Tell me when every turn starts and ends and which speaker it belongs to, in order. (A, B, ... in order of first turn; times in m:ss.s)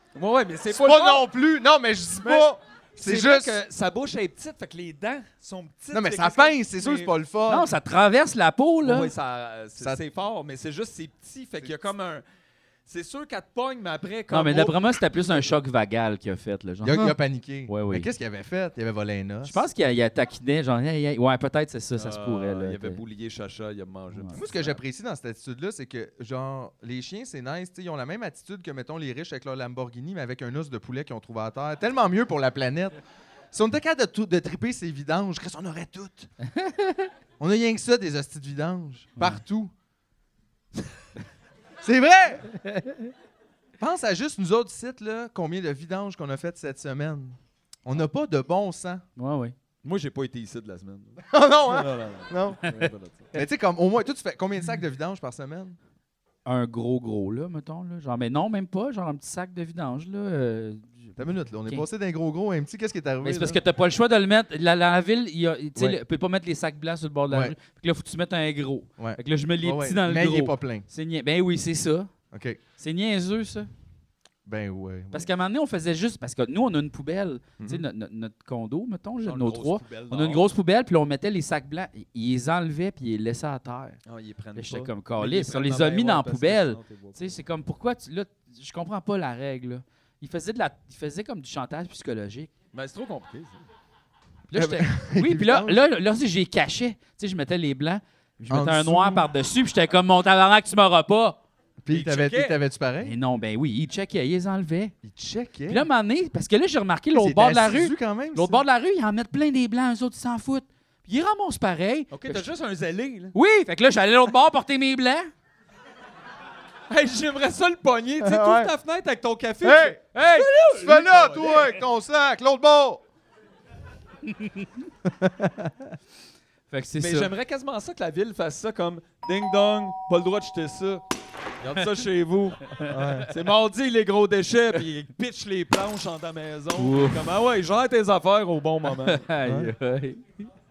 0:00.2-0:01.3 A
0:00.7-0:03.6 B
0:03.0-0:07.1 A
0:05.9-0:07.7 B
0:07.5-0:09.1 C
0:08.8-0:12.2 A
0:11.6-0:11.9 B
0:12.9-0:15.5 A
0:14.3-0:17.2 C
0:16.8-0:19.6 B
0:17.7-0:18.1 C
0:19.4-0:23.0 C
0:22.0-0:24.8 A
0:24.1-0:24.4 C
0:24.4-0:33.0 B
0:33.5-0:36.3 B
0:36.4-0:37.1 C
0:37.4-0:39.7 B
0:41.8-0:42.5 B
0:42.6-0:43.1 C
0:43.8-0:49.0 B
0:49.2-0:49.6 C
0:49.8-0:53.3 A
0:51.3-0:55.8 B
0:56.4-1:01.8 C
1:01.2-1:03.6 B
1:03.2-1:12.1 C
1:07.3-1:07.6 B
1:09.0-1:10.9 B
1:12.3-1:12.6 B
1:12.8-1:13.7 C
1:14.4-1:15.3 B
1:15.1-1:24.0 C
1:19.2-1:20.5 A
1:24.1-1:27.4 A
1:24.6-1:32.5 C
1:32.7-1:33.6 A
1:34.5-1:41.4 C
1:34.5-1:35.8 B
1:38.5-1:39.3 B
1:41.8-1:43.2 B
1:41.9-1:42.6 A
1:43.0-1:44.9 C
1:45.0-1:45.9 B
1:45.7-1:52.5 C
1:47.1-1:48.6 B
1:52.1-1:53.4 A
1:53.3-1:55.3 C
1:56.9-2:01.8 A
1:58.2-1:58.7 B
1:59.6-2:00.0 B
2:00.2-2:00.5 C
2:00.6-2:03.0 B
2:04.3-2:04.7 C
2:05.0-2:06.0 B
2:06.7-2:07.3 C
2:07.0-2:11.0 A
2:11.6-2:12.8 A
2:12.9-2:13.3 B
2:13.3-2:19.3 A
2:16.8-2:17.2 C
2:19.1-2:20.5 C
2:19.4-2:19.7 B